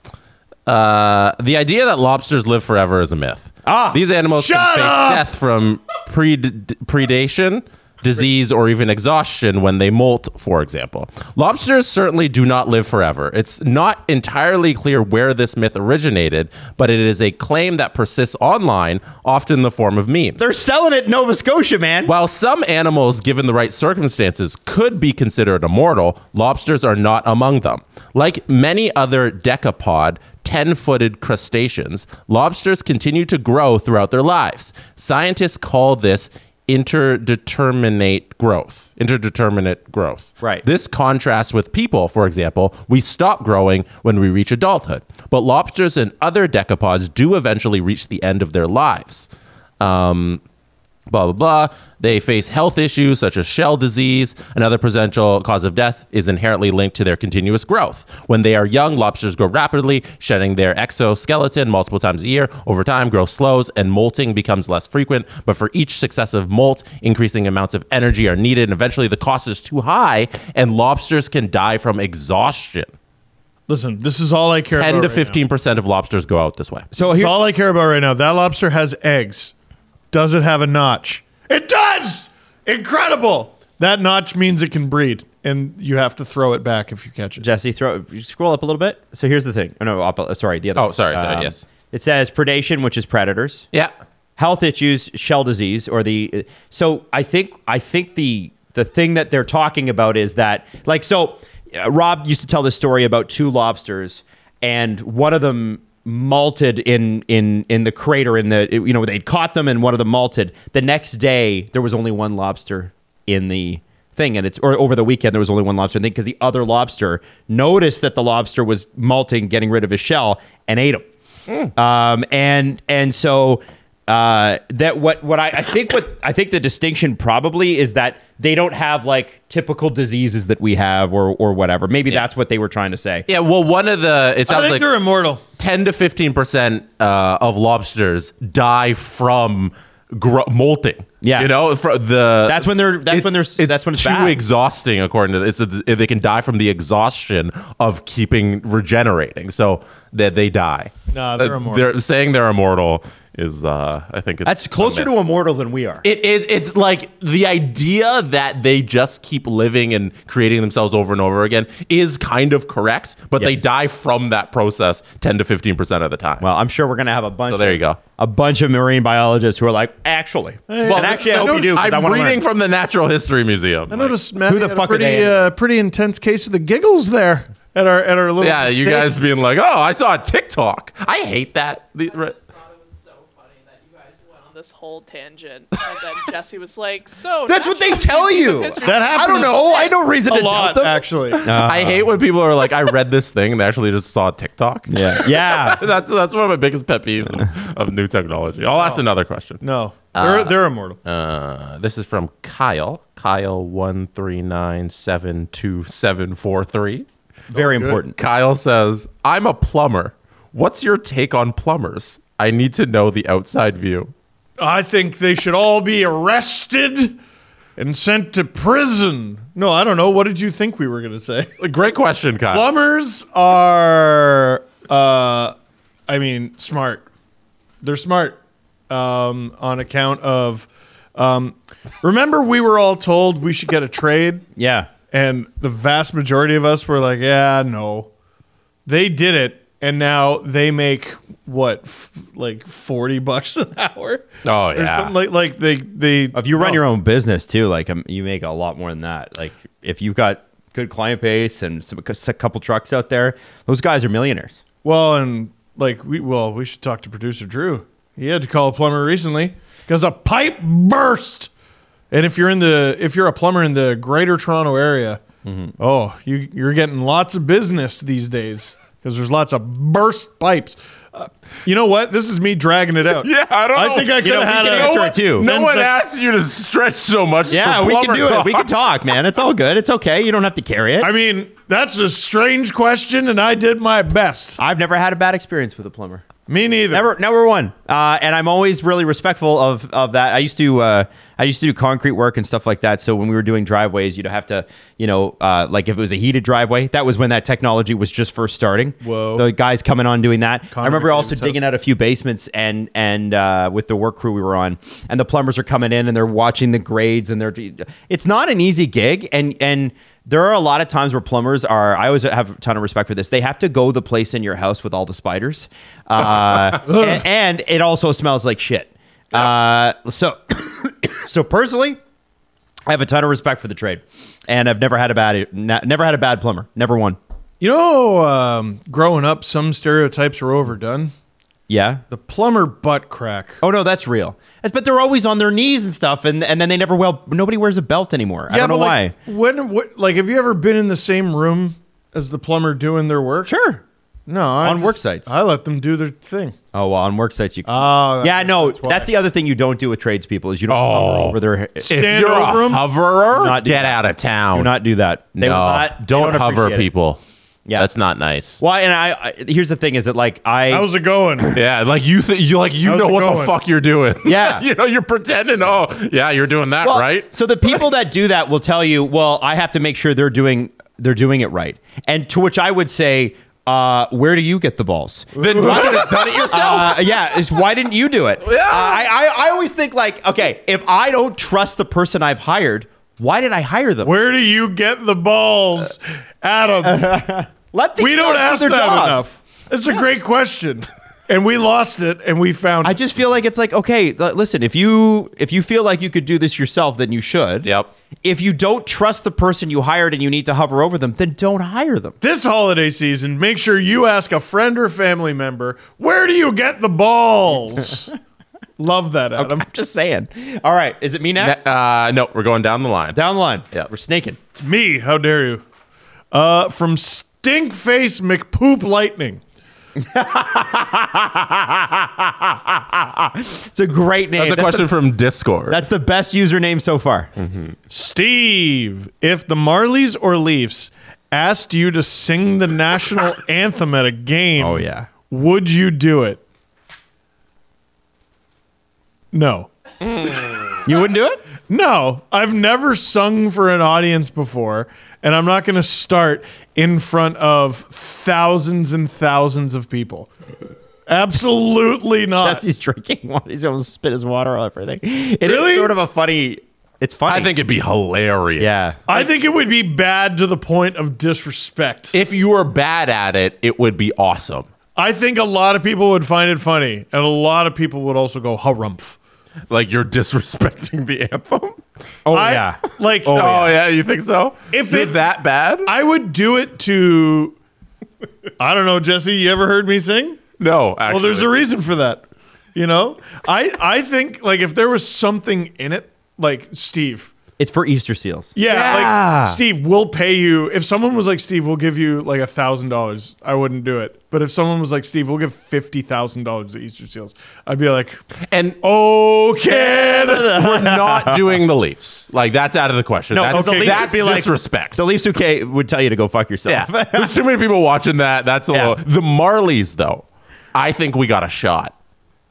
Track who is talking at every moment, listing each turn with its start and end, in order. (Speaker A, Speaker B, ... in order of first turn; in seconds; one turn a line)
Speaker A: 0.7-20.4
Speaker B: 3.6-4.0
Speaker C: 4.3-5.3
Speaker B: 20.4-22.1
Speaker A: 22.1-49.3
Speaker A: 49.8-50.4
Speaker A: 51.1-72.9
Speaker C: 73.7-75.4
Speaker A: 74.7-76.9
Speaker B: 76.9-77.3
Speaker C: 77.0-79.5
Speaker C: 80.1-87.4
Speaker B: 87.4-93.7
Speaker A: 90.8-91.6
Speaker B: 94.4-121.0
Speaker B: 121.7-133.3
Speaker A: 133.3-134.9
Speaker C: 134.5-135.4
Speaker A: 135.6-155.1
Speaker B: 141.2-141.5
Speaker B: 142.5-144.4
Speaker C: 151.1-151.9
Speaker B: 154.4-156.0
Speaker A: 156.0-166.4
Speaker B: 166.4-172.4
Speaker A: 167.5-168.0
Speaker C: 170.7-171.8
Speaker A: 170.8-174.2
Speaker C: 173.9-179.1
Speaker B: 174.4-175.5
Speaker A: 178.4-182.3
Speaker D: 182.1-190.0
Speaker B: 187.5-192.1
Speaker C: 188.8-191.6
Speaker A: 191.5-199.6
Speaker B: 194.9-195.8
Speaker C: 199.6-201.0
Speaker A: 200.1-207.1
Speaker B: 207.5-208.2
Speaker C: 207.5-208.0
Speaker A: 208.2-214.1
Speaker C: 214.6-217.2
Speaker C: 217.8-221.5
Speaker A: 221.6-222.7
Speaker C: 222.5-225.5
Speaker C: 226.1-227.1
Speaker C: 227.8-228.4
Speaker C: 228.9-234.5
Speaker B: 234.6-234.9
Speaker C: 235.1-238.1
Speaker C: 238.8-246.8
Speaker A: 244.4-245.1
Speaker B: 246.3-254.6
Speaker C: 254.8-261.5
Speaker C: 262.1-265.2
Speaker B: 265.4-265.7
Speaker C: 265.8-275.9
Speaker A: 273.1-278.7
Speaker B: 274.2-275.5
Speaker B: 277.5-281.1
Speaker C: 281.0-284.6
Speaker B: 284.6-286.2
Speaker C: 286.5-287.0
Speaker B: 286.9-322.0
Speaker C: 299.0-299.5
Speaker C: 300.7-301.6
Speaker C: 316.9-317.2
Speaker B: 322.9-327.2
Speaker C: 327.6-331.1
Speaker B: 331.7-332.0
Speaker C: 332.1-333.6
Speaker B: 333.6-339.1
Speaker C: 338.5-343.5
Speaker B: 343.4-343.8
Speaker C: 344.3-346.6
Speaker B: 344.6-345.3
Speaker B: 346.7-352.2
Speaker C: 347.6-349.1
Speaker A: 350.7-354.7
Speaker C: 351.9-352.9
Speaker B: 353.3-354.0
Speaker B: 354.5-356.9
Speaker A: 355.4-357.2
Speaker A: 357.8-358.6
Speaker B: 358.6-360.9
Speaker C: 360.7-361.6
Speaker A: 361.5-367.3
Speaker C: 362.8-363.6
Speaker B: 364.2-364.6
Speaker B: 366.8-384.1
Speaker A: 375.4-377.4
Speaker C: 375.4-376.3
Speaker A: 378.4-379.1
Speaker C: 384.0-387.2
Speaker B: 386.8-389.2
Speaker C: 388.0-392.9
Speaker B: 392.8-397.7
Speaker A: 397.6-397.9
Speaker B: 398.2-402.1
Speaker C: 402.2-408.1
Speaker C: 408.8-409.6
Speaker B: 409.4-411.6
Speaker A: 411.4-413.2
Speaker B: 413.1-414.4
Speaker C: 414.5-415.6
Speaker C: 416.3-419.4
Speaker B: 419.9-424.9
Speaker A: 424.4-425.8
Speaker B: 425.7-427.3
Speaker A: 427.4-427.7
Speaker C: 427.9-436.4
Speaker B: 434.6-435.1
Speaker C: 439.3-439.7
Speaker A: 440.0-440.8
Speaker B: 440.8-441.4
Speaker C: 441.7-450.3
Speaker C: 451.1-452.6
Speaker B: 452.3-457.5
Speaker C: 455.4-455.9
Speaker A: 457.3-458.9
Speaker B: 458.6-459.0
Speaker C: 459.1-462.1
Speaker A: 462.1-464.7
Speaker C: 464.9-469.2
Speaker A: 469.7-471.8
Speaker B: 472.2-473.7
Speaker C: 472.3-473.6
Speaker A: 473.3-475.9
Speaker C: 474.7-475.2
Speaker C: 475.8-477.6
Speaker C: 478.6-480.4
Speaker A: 480.6-481.5
Speaker C: 481.1-482.2
Speaker C: 482.7-487.3
Speaker B: 487.6-489.6
Speaker C: 488.6-498.2
Speaker A: 498.5-498.8
Speaker C: 498.8-500.6
Speaker B: 499.9-501.6
Speaker A: 500.1-505.0
Speaker B: 503.3-507.4
Speaker A: 506.7-511.9
Speaker B: 508.7-509.0